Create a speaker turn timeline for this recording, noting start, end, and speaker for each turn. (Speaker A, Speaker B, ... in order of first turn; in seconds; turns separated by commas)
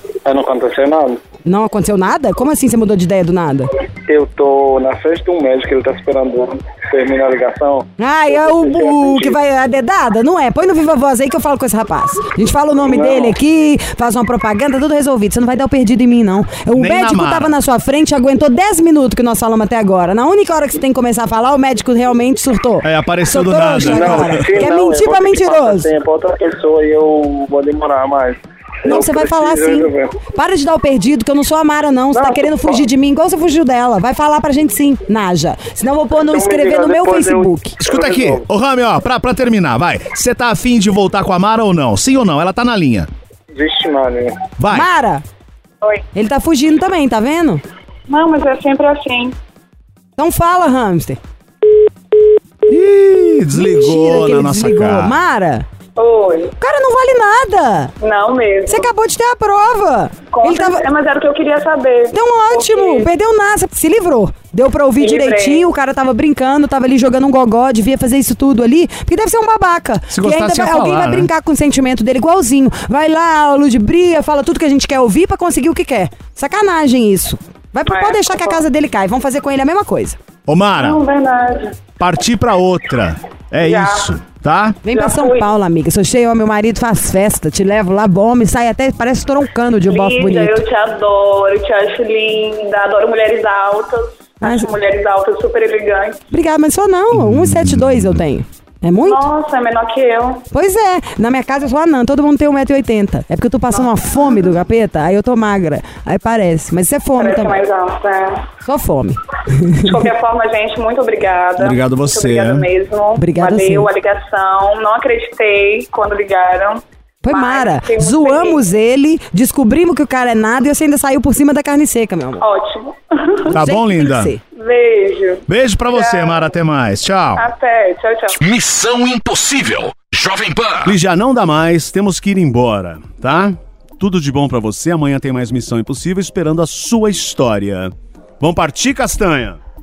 Speaker A: 0.2-1.2, Speaker B: 1.4-3.7, Speaker A: 4.1-9.4, Speaker B: 8.0-25.9, Speaker A: 12.8-13.4, Speaker C: 16.7-17.6, Speaker C: 22.8-24.5, Speaker A: 23.8-30.1, Speaker B: 28.9-37.8, Speaker A: 32.1-32.8, Speaker A: 36.2-38.4, Speaker C: 37.8-43.1, Speaker A: 43.5-44.4, Speaker C: 44.6-44.9, Speaker B: 44.7-45.2, Speaker B: 46.1-47.6, Speaker D: 48.1-49.4, Speaker B: 50.2-51.2, Speaker C: 52.7-55.2, Speaker B: 53.5-55.7, Speaker D: 56.0-56.5, Speaker B: 56.6-57.9, Speaker D: 58.0-58.9, Speaker B: 58.7-60.9, Speaker D: 60.3-63.1, Speaker B: 62.1-80.2, Speaker D: 65.0-65.7, Speaker C: 70.1-71.3, Speaker D: 77.9-78.4, Speaker C: 80.5-81.0, Speaker D: 80.8-81.8, Speaker C: 82.0-84.8, Speaker D: 83.6-84.1, Speaker B: 84.8-90.6, Speaker D: 84.9-85.5, Speaker D: 89.9-96.2, Speaker B: 94.4-94.7, Speaker B: 96.3-99.2, Speaker C: 97.2-98.2, Speaker D: 99.0-100.5, Speaker B: 100.5-107.6, Speaker D: 107.2-108.5, Speaker B: 108.6-110.0, Speaker D: 109.8-118.6, Speaker C: 111.6-112.7, Speaker B: 113.2-113.9, Speaker B: 117.2-122.5, Speaker D: 122.4-123.5, Speaker C: 123.5-124.3, Speaker B: 123.5-124.4, Speaker D: 124.6-126.5, Speaker C: 125.5-127.5, Speaker D: 127.4-128.4, Speaker E: 128.4-131.0, Speaker C: 130.8-139.6